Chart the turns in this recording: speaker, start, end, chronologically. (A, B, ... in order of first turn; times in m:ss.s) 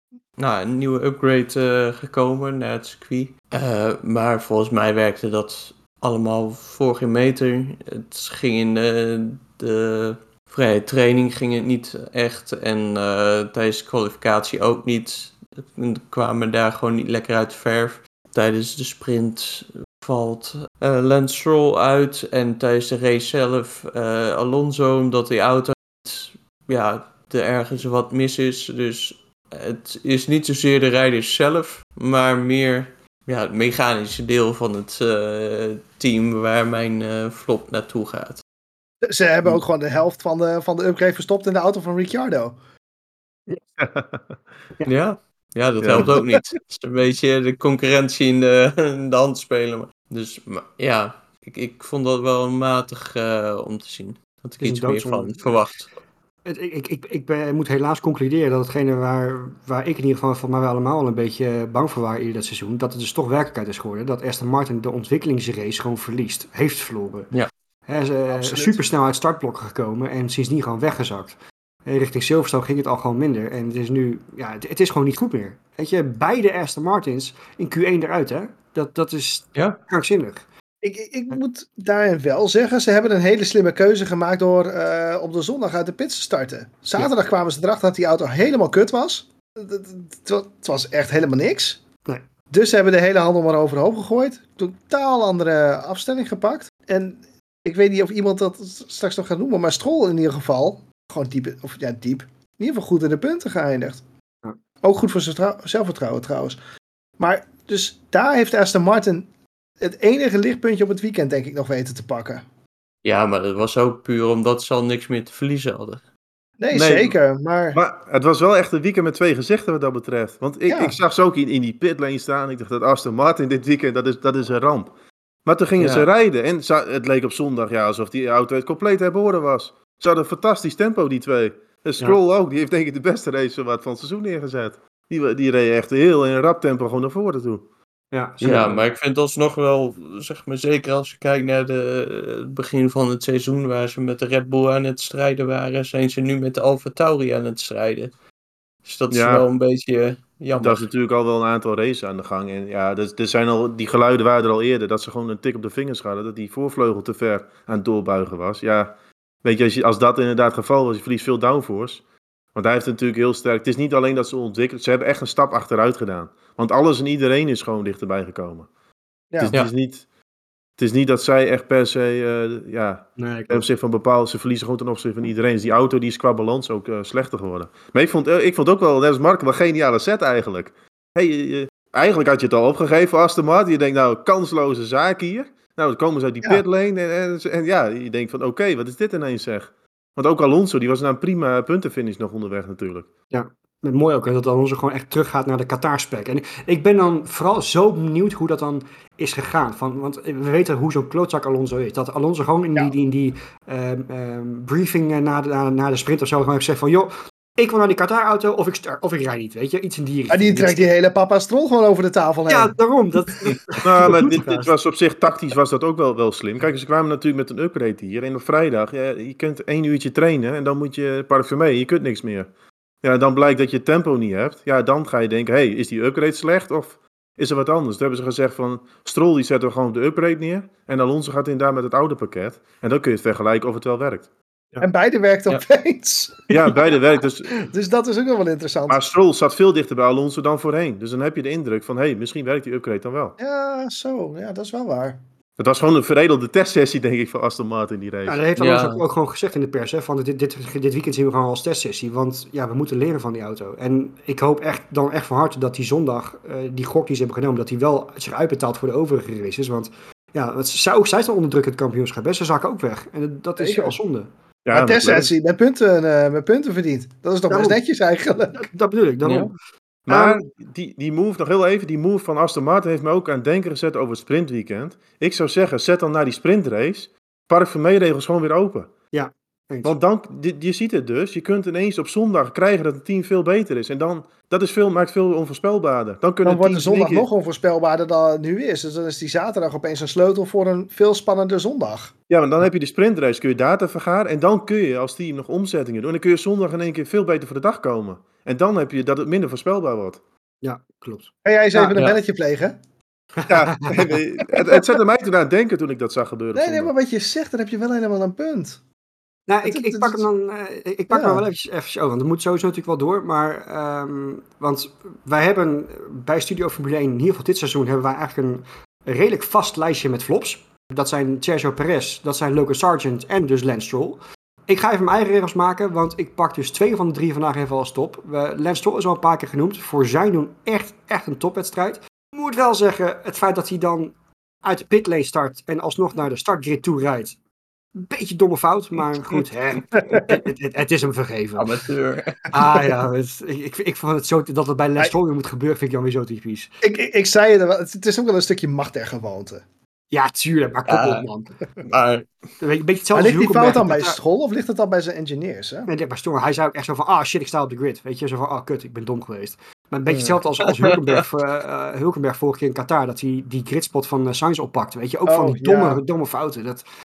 0:00.4-0:38.4 A
0:39.0-0:42.6 B
0:43.8-0:44.4 C
0:44.9-0:55.9 A
0:45.8-0:46.4 C
0:54.6-0:55.6 D
0:56.4-1:07.3 D
1:07.9-1:11.4 D
1:08.4-1:08.8 B
1:11.9-1:20.4 D
1:20.8-1:31.8 B
1:32.5-1:44.0 B
1:44.8-1:46.6 B
1:47.2-1:49.3 B
1:49.8-1:52.4 B
1:53.0-1:56.0 A
1:56.6-1:57.8 B
1:56.7-1:57.1 C
1:57.7-2:04.9 C
2:00.7-2:01.0 B
2:05.5-2:17.7 C
2:05.8-2:06.1 A
2:18.1-2:18.8 D
2:18.4-2:28.1 A
2:28.8-2:30.9 A
2:29.1-2:29.4 C
2:30.6-2:42.0 C
2:42.6-2:48.7 C
2:49.4-2:50.0 C
2:50.8-3:13.1 C
2:53.2-2:53.7 D
3:13.3-3:30.9 D
3:30.3-3:32.8 B
3:32.5-3:34.7 D
3:33.8-3:42.5 C
3:43.0-3:54.3 C
3:54.8-3:56.5 B
3:56.5-3:57.6 C
3:57.6-3:59.0 B
3:58.9-4:03.4 C
4:03.4-4:05.2 B
4:05.6-4:08.4 C
4:08.3-4:24.3 D
4:08.6-4:09.0 A
4:23.6-4:24.0 B
4:24.7-4:25.3 C
4:24.7-4:28.7 B
4:27.5-4:27.8 D
4:28.6-4:29.6 D
4:29.2-4:29.5 A
4:30.1-4:38.9 C
4:30.1-4:30.4 D
4:39.1-4:39.9 D
4:39.8-4:47.3 C
4:46.4-4:52.1 B
4:52.3-5:00.2 C
5:00.6-5:02.1 D
5:01.4-5:02.8 B
5:03.4-5:04.1 D
5:03.5-5:06.9 C
5:04.6-5:04.8 B
5:06.6-5:08.8 B
5:09.5-5:37.4 D
5:09.6-5:10.3 B
5:11.1-5:11.4 B
5:38.0-5:41.8 D
5:40.0-5:40.3 B
5:41.6-5:42.6 A
5:42.5-5:46.7 D
5:46.8-5:49.6 B
5:50.1-5:51.5 D
5:50.9-5:51.3 A
5:51.8-5:52.3 A
5:52.6-5:54.2 D
5:53.1-5:55.9 B
5:55.9-6:06.8 D
6:00.1-6:00.4 B
6:05.3-6:06.0 B